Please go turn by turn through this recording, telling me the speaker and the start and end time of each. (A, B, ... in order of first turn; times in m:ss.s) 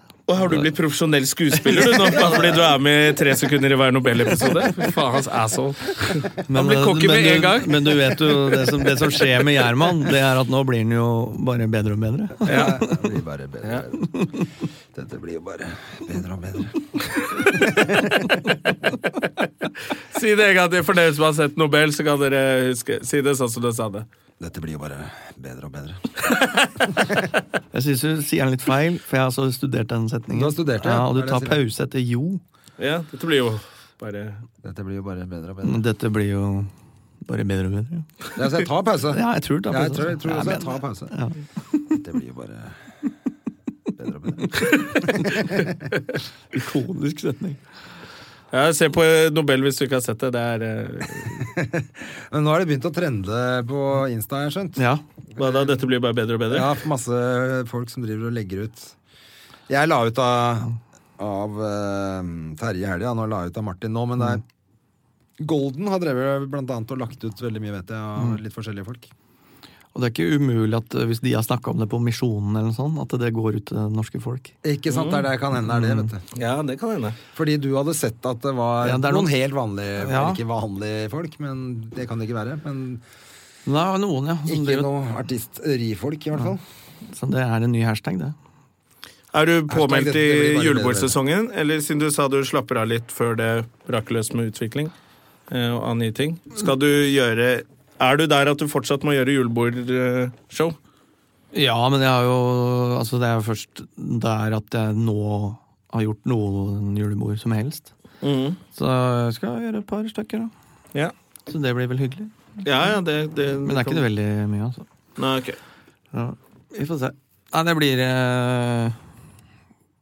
0:00.3-0:09.6 A
0:00.4-0:00.7 B
0:01.6-0:02.2 B
0:02.2-0:02.6 C
0:06.5-0:12.9 B
0:12.5-0:14.1 C
0:12.5-0:12.8 A
0:14.1-0:14.4 B
0:14.9-0:18.3 C
0:20.1-0:24.1 A
0:24.4-0:26.0 C
0:26.4-0:26.7 A
0:27.7-0:32.4 B
0:30.3-0:31.6 C
0:32.8-0:34.4 A
0:34.6-0:35.8 C
0:35.6-0:36.7 B
0:37.2-0:38.1 B
0:38.4-0:41.1 C
0:39.1-0:42.0 B
0:41.9-0:42.8 C
0:44.0-0:45.7 C
0:45.1-0:45.5 B
0:46.5-0:47.6 B
0:48.5-0:51.5 A
0:51.4-0:54.8 C
0:54.8-0:55.0 B
0:55.4-0:55.7 C
0:55.4-0:56.8 A
0:56.5-0:59.0 C
0:59.7-1:04.4 C
1:05.4-1:09.1 C
1:10.0-1:14.5 B
1:14.6-1:16.2 C
1:14.9-1:15.3 A
1:15.7-1:16.1 B
1:16.3-1:17.2 A
1:17.4-1:23.0 C
1:18.8-1:19.3 B
1:20.0-1:20.4 B
1:23.7-1:24.9 B
1:24.5-1:26.6 C
1:27.1-1:28.4 B
1:29.3-1:34.9 A
1:29.7-1:31.2 C
1:35.5-1:40.8 A
1:41.5-1:47.9 B
1:48.2-1:48.6 A
1:48.8-1:50.5 B
1:51.5-1:52.3 B
1:52.6-1:54.1 A
1:53.6-1:54.8 B
1:55.2-1:55.6 A
1:56.1-1:59.0 B